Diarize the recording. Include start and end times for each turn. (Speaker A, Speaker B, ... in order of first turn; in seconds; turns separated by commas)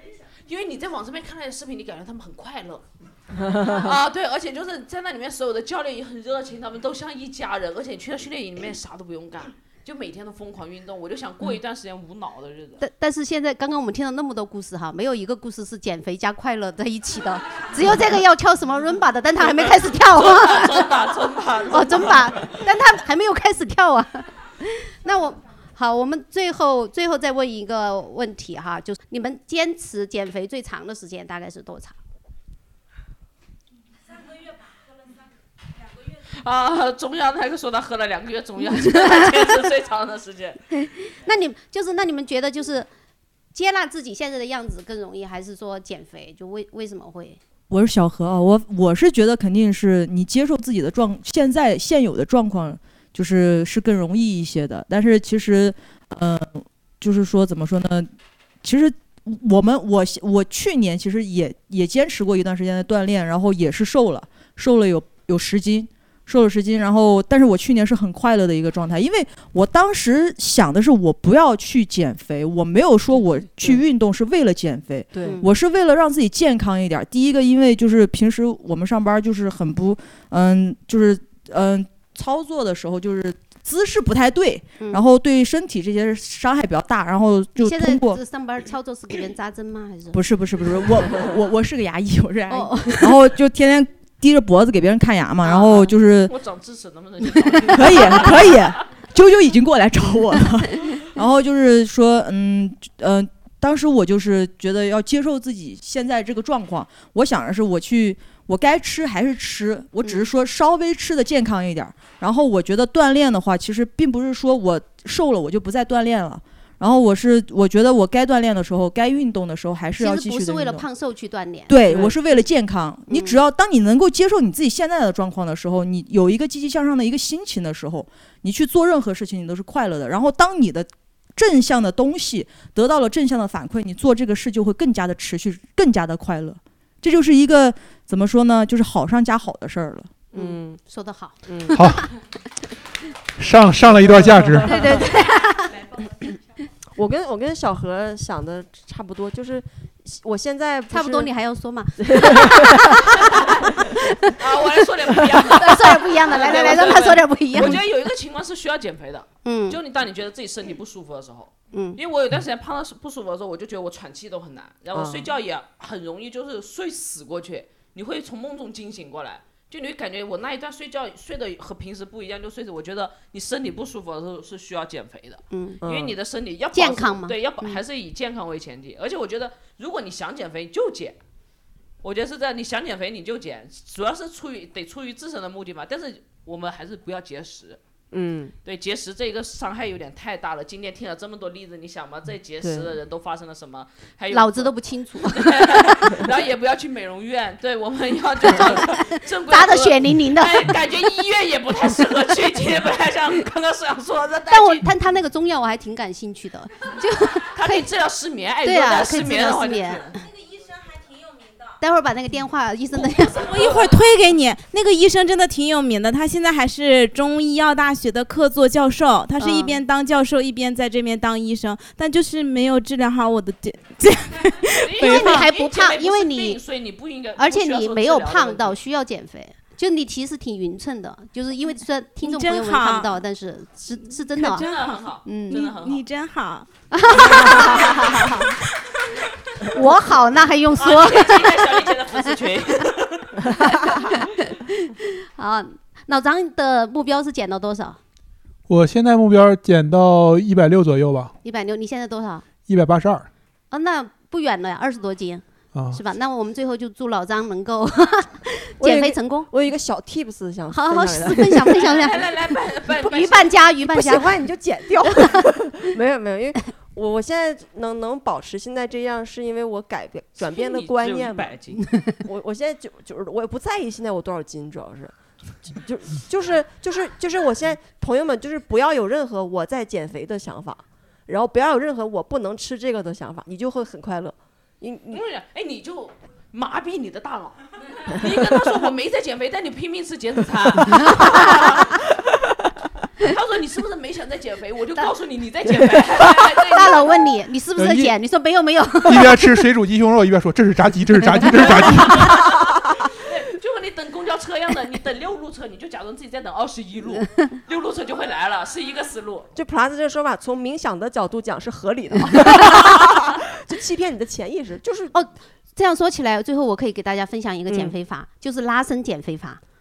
Speaker A: 0.5-2.8, Speaker B: 3.4-3.9, Speaker A: 3.5-12.8, Speaker C: 12.8-20.9, Speaker A: 19.4-22.4, Speaker C: 21.7-32.0, Speaker A: 36.4-40.6, Speaker C: 38.8-39.1, Speaker C: 40.8-42.9, Speaker C: 43.5-47.4, Speaker D: 47.7-58.1, Speaker D: 58.6-88.2, Speaker B: 75.1-75.4, Speaker C: 87.6-90.2, Speaker D: 90.1-96.3, Speaker C: 92.5-93.3, Speaker C: 95.4-95.9, Speaker A: 96.3-98.7, Speaker C: 97.4-97.7, Speaker D: 97.7-120.8, Speaker C: 120.0-121.7, Speaker D: 121.7-140.1, Speaker B: 121.9-122.2, Speaker C: 123.1-123.4, Speaker B: 140.3-140.8, Speaker C: 140.3-141.4, Speaker B: 141.5-141.8, Speaker E: 141.7-142.0, Speaker E: 143.4-145.1, Speaker B: 143.9-145.2, Speaker C: 144.7-145.7, Speaker B: 147.0-151.3, Speaker C: 150.9-153.1, Speaker B: 152.0-153.9, Speaker A: 153.1-153.7, Speaker C: 153.9-154.4, Speaker A: 154.4-181.2, Speaker C: 155.6-157.8, Speaker C: 159.4-159.8, Speaker C: 161.7-162.0, Speaker B: 164.9-165.3, Speaker C: 175.5-175.8, Speaker B: 175.8-176.2, Speaker C: 176.7-177.8, Speaker A: 182.0-187.8, Speaker B: 188.1-188.6, Speaker A: 188.7-204.9, Speaker B: 192.6-192.9, Speaker C: 194.3-195.8, Speaker C: 198.4-200.7, Speaker C: 204.5-207.9, Speaker A: 207.6-210.2, Speaker C: 208.6-210.2, Speaker C: 211.8-213.3, Speaker A: 212.9-214.0, Speaker F: 213.4-225.5, Speaker C: 219.4-219.8, Speaker A: 224.8-228.8, Speaker C: 225.0-226.6, Speaker C: 227.4-234.7, Speaker F: 232.2-233.2, Speaker F: 234.4-238.5, Speaker A: 234.4-236.0, Speaker C: 235.2-235.7, Speaker C: 236.9-238.3, Speaker A: 237.5-238.3, Speaker C: 239.6-242.1, Speaker A: 240.8-243.5, Speaker C: 243.6-248.0, Speaker E: 248.7-251.3, Speaker C: 251.4-252.4, Speaker E: 252.7-253.3, Speaker C: 253.7-259.5, Speaker E: 255.7-256.0, Speaker B: 258.8-262.1, Speaker C: 260.7-262.3, Speaker A: 261.7-263.6, Speaker C: 263.0-264.4, Speaker B: 263.8-271.6, Speaker A: 270.5-271.9, Speaker C: 271.9-272.2, Speaker B: 272.2-275.1, Speaker B: 275.7-285.2, Speaker A: 285.1-292.0, Speaker A: 293.2-297.3, Speaker C: 296.7-299.6, Speaker E: 297.8-298.1, Speaker E: 299.1-302.4, Speaker A: 301.5-309.5, Speaker B: 309.6-315.1, Speaker C: 315.1-319.6, Speaker B: 317.7-317.9